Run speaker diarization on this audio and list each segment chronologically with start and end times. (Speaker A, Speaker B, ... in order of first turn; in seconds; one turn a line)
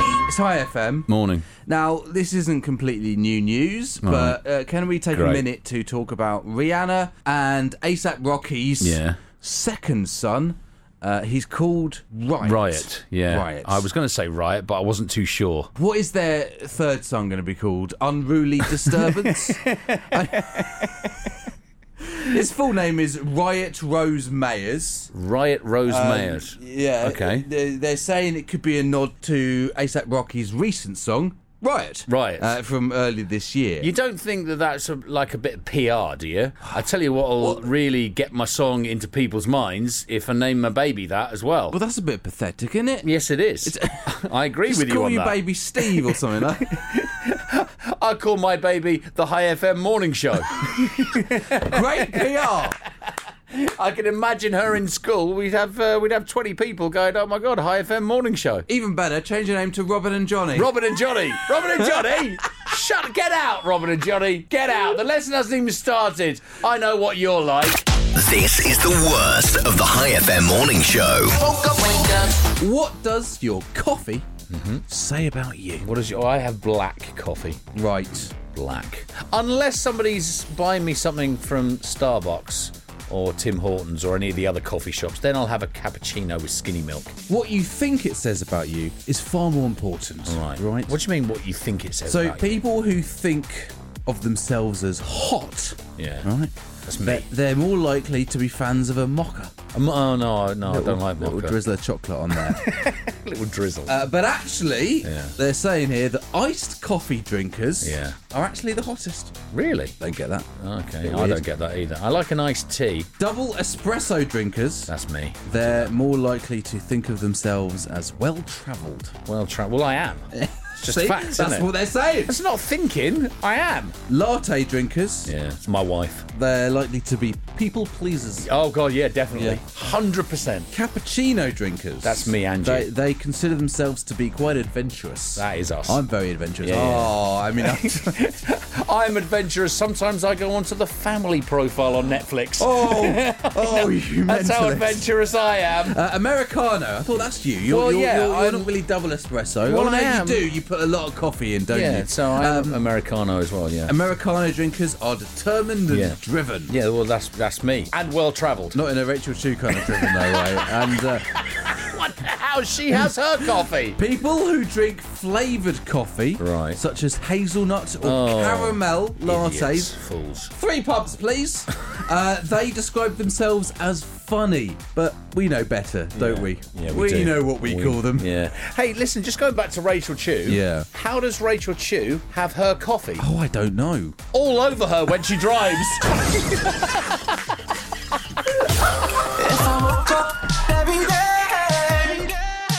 Speaker A: 0.2-13.9
Speaker B: 1.1-1.5
Speaker B: 4.0-4.4
Speaker B: 5.1-5.4
Speaker B: 8.8-9.2
Speaker B: 12.4-15.7
Speaker A: 15.8-21.1
Speaker B: 18.8-21.1
Speaker A: 22.1-25.1
Speaker B: 25.1-27.4
Speaker A: 25.8-33.9
Speaker B: 32.1-32.5
Speaker B: 33.8-41.8
Speaker A: 41.7-43.1
Speaker B: 43.0-46.1
Speaker A: 43.6-46.8
Speaker B: 46.7-52.2
Speaker A: 51.6-52.8
Speaker B: 53.5-58.6
Speaker A: 58.7-60.7
Speaker B: 60.5-67.8
Speaker C: 68.1-71.4
Speaker D: 71.4-72.4
Speaker A: 72.5-74.3
Speaker B: 74.5-74.8
Speaker A: 74.9-75.9
Speaker B: 75.8-77.6
Speaker A: 77.7-78.3
Speaker B: 78.3-87.1
Speaker A: 87.3-90.9
Speaker B: 90.3-92.6
Speaker A: 92.0-99.5
Speaker B: 96.0-96.3
Speaker B: 96.8-97.3
Speaker B: 99.7-101.6
Speaker A: 100.7-102.7
Speaker B: 102.4-104.0
Speaker A: 103.9-109.4
Speaker B: 105.0-105.3
Speaker B: 107.8-108.2
Speaker B: 109.5-109.9
Speaker A: 110.0-110.5
Speaker B: 110.6-113.1
Speaker A: 111.0-111.4
Speaker A: 113.2-114.9
Speaker B: 114.9-115.9
Speaker A: 115.5-119.1
Speaker B: 119.2-121.7
Speaker A: 120.3-122.3
Speaker B: 122.2-124.0
Speaker A: 124.1-125.3
Speaker B: 125.2-126.2
Speaker A: 126.3-128.5
Speaker B: 128.4-130.7
Speaker A: 129.3-129.6
Speaker A: 130.7-138.2
Speaker B: 132.0-132.9
Speaker B: 135.3-136.0
Speaker B: 136.6-146.0
Speaker A: 142.6-145.1
Speaker A: 145.8-152.9
Speaker B: 147.7-148.7
Speaker B: 149.6-150.4
Speaker B: 151.7-153.9
Speaker A: 153.9-156.7
Speaker B: 155.9-158.8
Speaker A: 158.7-161.2
Speaker B: 159.8-160.2
Speaker B: 161.5-164.0
Speaker A: 163.9-169.9
Speaker B: 166.4-166.8
Speaker B: 168.0-170.5
Speaker A: 170.5-178.3
Speaker B: 176.1-183.3
Speaker A: 180.4-180.9
Speaker A: 183.2-184.2
Speaker B: 184.3-187.0
Speaker D: 189.3-192.3